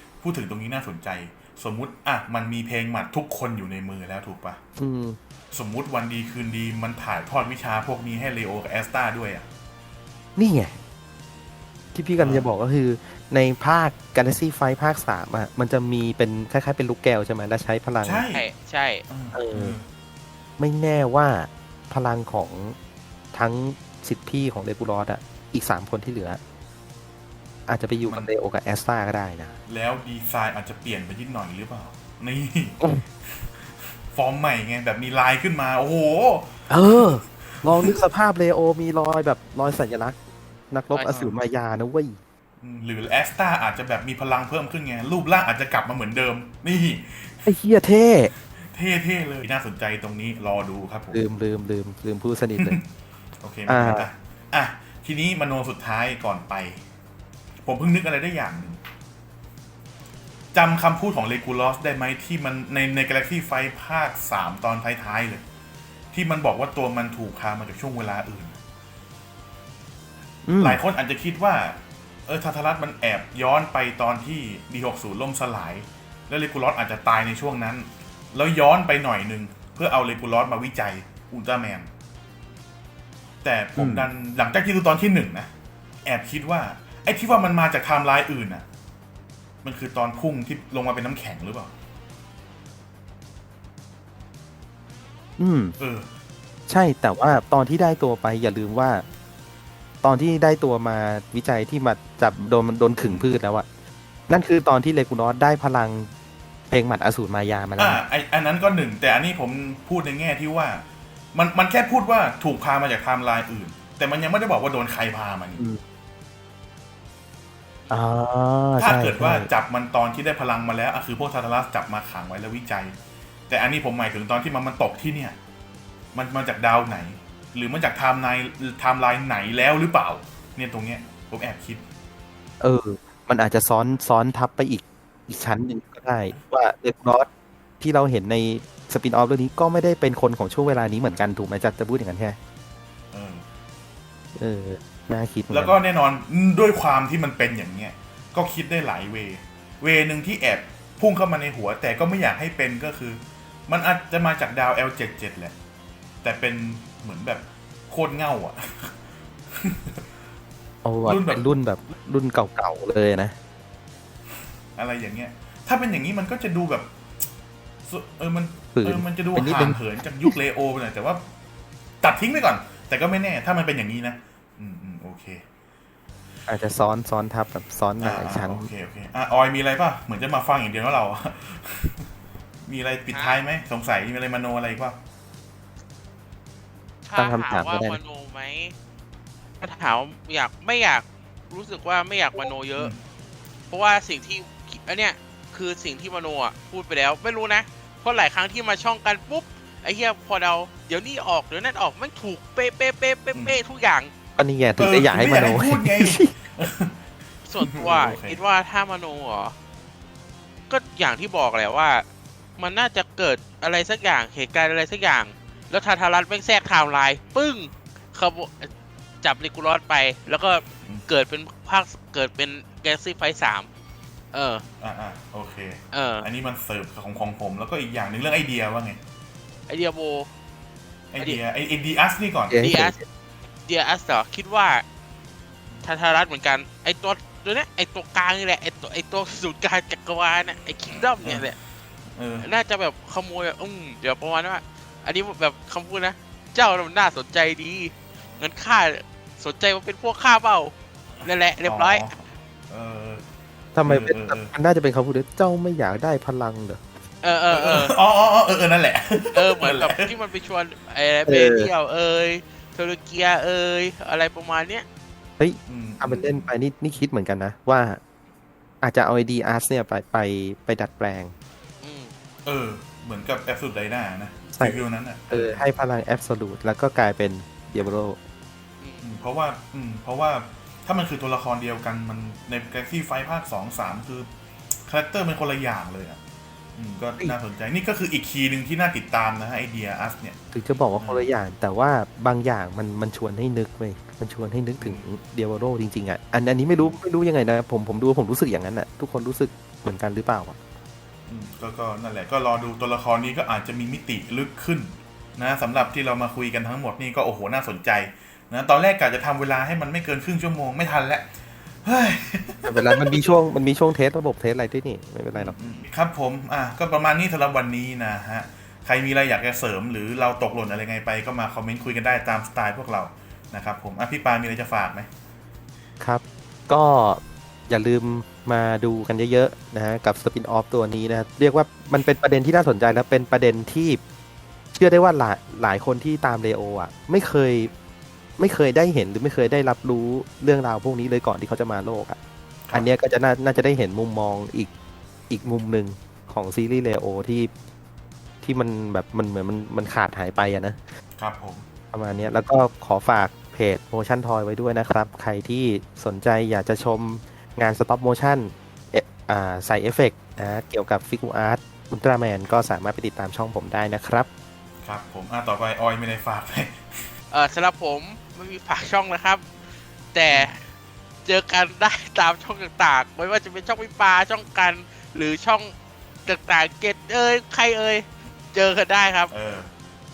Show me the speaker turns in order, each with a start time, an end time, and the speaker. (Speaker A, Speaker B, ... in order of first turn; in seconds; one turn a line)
Speaker A: 0.2-4.6
Speaker B: 4.8-5.2
Speaker A: 5.5-9.4
Speaker B: 10.4-10.8
Speaker B: 11.9-18.2
Speaker A: 12.2-12.5
Speaker A: 18.0-18.5
Speaker C: 18.3-19.0
Speaker A: 19.1-19.9
Speaker B: 19.3-19.8
Speaker B: 20.6-22.8
Speaker B: 23.3-26.4
Speaker B: 27.7-29.5
Speaker A: 29.7-38.0
Speaker B: 36.7-40.2
Speaker B: 40.7-42.2
Speaker A: 41.1-41.4
Speaker A: 42.6-47.5
Speaker B: 47.5-48.3
Speaker A: 48.5-51.2
Speaker B: 51.1-52.8
Speaker A: 52.6-52.8
Speaker A: 53.4-56.8
Speaker B: 53.7-54.1
Speaker A: 57.6-58.8
Speaker A: 60.5-65.4
Speaker A: 66.1-68.6
Speaker B: 70.5-70.8
Speaker A: 70.6-81.9
Speaker A: 83.4-85.5
Speaker B: 83.8-84.1
Speaker A: 86.0-88.6
Speaker A: 89.6-91.7
Speaker B: 95.4-95.8
Speaker A: 95.8-96.1
Speaker B: 96.7-99.0
Speaker B: 100.0-103.7
Speaker A: 103.0-103.3
Speaker B: 104.3-106.1
Speaker B: 106.7-108.0
Speaker A: 107.8-115.6
Speaker B: 117.9-119.5
Speaker A: 118.8-122.9
Speaker A: 123.5-125.4
Speaker A: 126.1-131.8
Speaker B: 132.6-137.3
Speaker B: 137.8-142.4
Speaker A: 143.1-143.4
Speaker B: 144.3-145.8
Speaker A: 145.5-155.5
Speaker A: 156.2-158.9
Speaker A: 159.5-160.0
Speaker B: 160.8-163.4
Speaker A: 161.0-161.5
Speaker A: 164.8-166.9
Speaker A: 167.9-171.2
Speaker B: 168.7-170.4
Speaker A: 172.0-175.4
Speaker B: 176.5-178.7
Speaker A: 178.0-182.1
Speaker A: 182.7-185.0
Speaker C: 183.1-183.4
Speaker C: 187.0-188.7
Speaker B: 187.2-188.0
Speaker C: 189.6-192.9
Speaker C: 193.7-204.1
Speaker B: 204.4-206.3
Speaker A: 204.8-206.9
Speaker C: 207.4-209.5
Speaker A: 207.6-208.4
Speaker C: 210.7-212.1
Speaker C: 212.6-218.7
Speaker C: 219.2-223.7
Speaker C: 224.3-224.6
Speaker A: 224.8-229.0
Speaker C: 225.9-226.2
Speaker C: 229.7-230.3
Speaker A: 231.1-232.6
Speaker B: 232.5-232.9
Speaker C: 232.6-233.0
Speaker C: 233.7-234.8
Speaker C: 235.8-241.6
Speaker A: 241.2-241.5
Speaker A: 242.2-242.5
Speaker C: 242.4-252.1
Speaker A: 251.6-252.1
Speaker A: 252.7-253.2
Speaker B: 253.7-256.8
Speaker A: 253.8-254.5
Speaker C: 257.2-257.9
Speaker A: 257.5-260.1
Speaker C: 259.3-264.9
Speaker B: 261.3-261.7
Speaker B: 265.4-268.0
Speaker A: 265.7-266.5
Speaker B: 268.8-271.3
Speaker C: 271.8-272.1
Speaker A: 272.4-275.7
Speaker B: 274.5-278.2
Speaker C: 278.8-279.1
Speaker A: 279.0-284.3
Speaker A: 284.9-286.2
Speaker A: 286.8-290.4
Speaker B: 290.5-300.6
Speaker A: 290.9-291.3
Speaker A: 294.8-295.0
Speaker A: 301.3-311.3
Speaker A: 311.8-313.2
Speaker B: 312.6-315.6
Speaker A: 315.3-325.1
Speaker B: 326.0-334.0
Speaker B: 334.7-337.7
Speaker B: 338.4-342.2
Speaker B: 342.7-344.7
Speaker B: 345.3-347.5
Speaker B: 348.4-350.8
Speaker A: 351.2-351.6
Speaker B: 351.9-364.3
Speaker A: 364.8-367.1
Speaker C: 367.3-369.4
Speaker C: 370.1-370.6
Speaker C: 371.2-375.7
Speaker C: 376.2-379.3
Speaker A: 379.3-379.7